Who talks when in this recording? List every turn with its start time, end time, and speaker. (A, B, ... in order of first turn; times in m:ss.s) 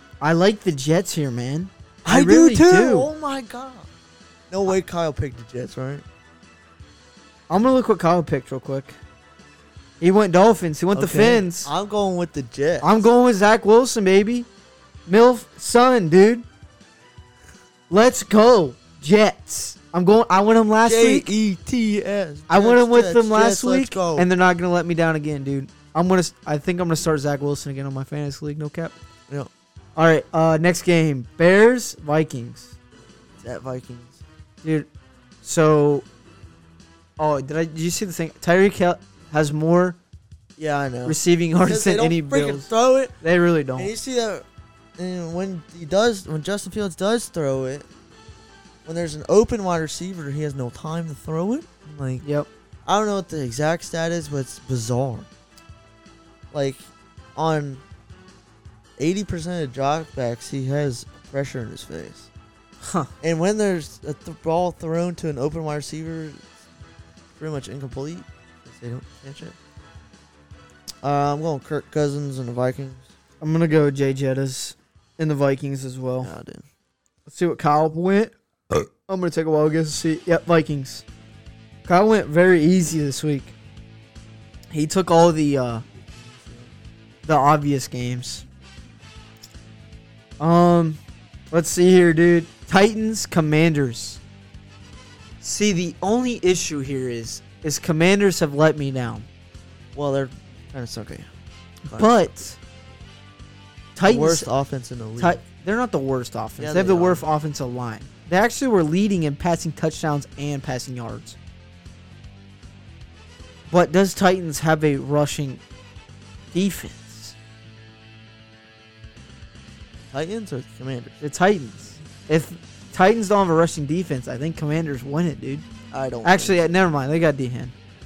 0:00.2-0:03.1 A
0:02.0-0:03.9 B
0:04.5-0:06.0 B
0:07.5-0:09.0 A
0:10.0-0:11.7 A
0:10.9-0:13.0 B
0:12.8-0:14.5 A
0:15.1-0:16.4 A
0:17.9-0:21.3 A
0:20.8-0:24.3 B
0:22.5-0:28.9 A
0:30.0-0:32.8 A
0:33.4-0:34.2 B
0:34.6-0:34.9 A
0:35.4-0:36.0 A
0:37.2-0:40.0 A
0:40.6-0:43.2 B
0:41.0-0:42.7 A
0:43.2-0:43.9 A
0:43.8-0:44.4 B
0:45.0-0:47.9 B
0:48.8-0:52.2 B
0:52.2-0:52.5 A
0:52.8-0:55.3 B
0:56.5-0:57.8 B
0:59.0-1:02.3 B
1:02.8-1:03.1 A
1:03.2-1:06.6 B
1:07.4-1:09.6 B
1:11.0-1:13.1 B
1:13.4-1:16.3 A
1:16.2-1:16.6 B
1:17.3-1:18.3 A
1:19.1-1:21.0 A
1:21.8-1:23.5 A
1:24.7-1:25.8 A
1:26.1-1:26.7 B
1:27.2-1:28.4 A
1:30.4-1:31.0 A
1:31.5-1:34.2 A
1:35.4-1:39.3 A
1:39.9-1:41.3 B
1:41.9-1:42.6 A
1:44.0-1:44.5 A
1:44.0-1:45.4 B
1:45.2-1:51.4 A
1:46.6-1:47.2 B
1:53.7-1:55.6 A
1:56.5-1:57.3 A
2:00.1-2:01.2 B
2:01.2-2:05.6 A
2:05.9-2:06.6 B
2:06.2-2:07.7 A